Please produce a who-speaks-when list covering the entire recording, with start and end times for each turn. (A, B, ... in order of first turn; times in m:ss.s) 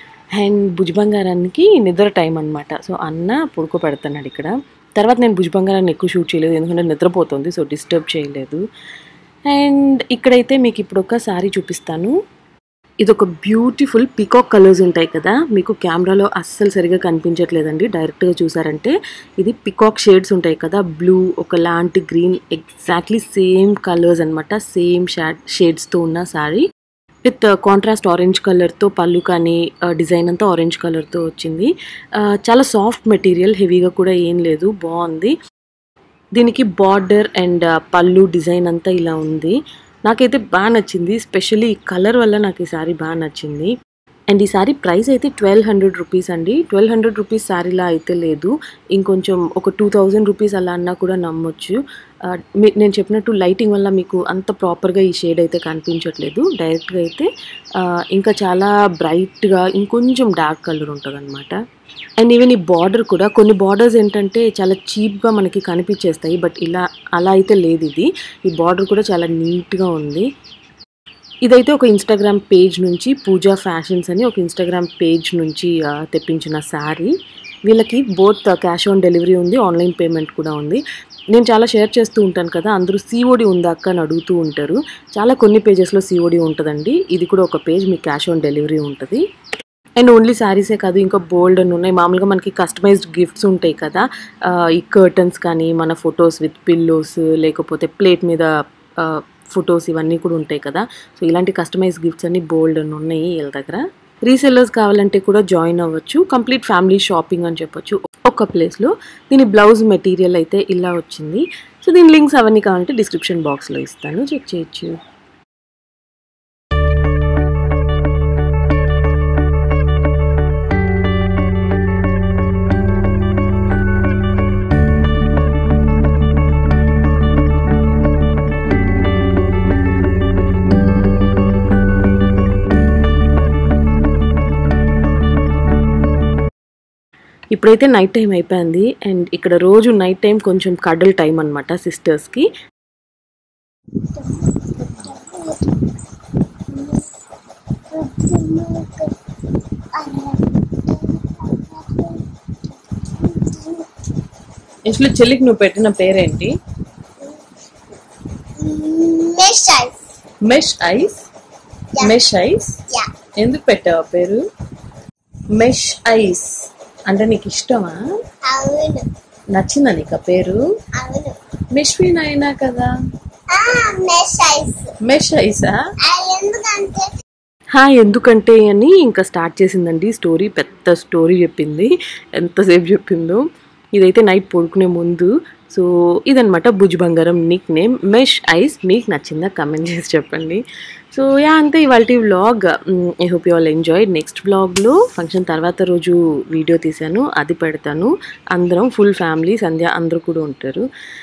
0:00.4-0:08.6 A
0:09.5-0:12.1 A
0:13.0-0:26.7 A
0:27.2-0:31.7 A
0:32.2-0:35.3 A
0:36.4-0:39.6 A
0:40.1-0:43.7 A
0:44.3-0:51.8 A
0:52.6-0:57.3 A
0:58.1-1:01.5 A
1:02.2-1:10.3 A
1:11.4-1:17.1 A
1:17.7-1:20.8 A
1:21.3-1:29.2 A
1:30.0-1:55.0 A
2:17.5-2:22.5 A
2:24.1-2:25.9 B
2:26.7-2:27.0 B
2:27.9-2:29.1 B
2:30.0-2:32.3 B
2:33.2-2:33.9 B
2:34.9-2:36.5 A
2:38.6-2:40.0 B
2:40.4-2:41.2 A
2:42.0-2:42.8 A
2:43.4-2:44.4 A
2:45.6-2:48.0 A
2:48.5-2:49.1 B
2:49.5-2:50.6 A
2:51.0-2:51.4 B
2:51.7-2:52.9 A
2:53.5-2:55.0 B
2:55.0-2:55.8 A
2:56.1-2:57.1 B
2:57.8-3:03.4 A
3:04.0-3:20.8 A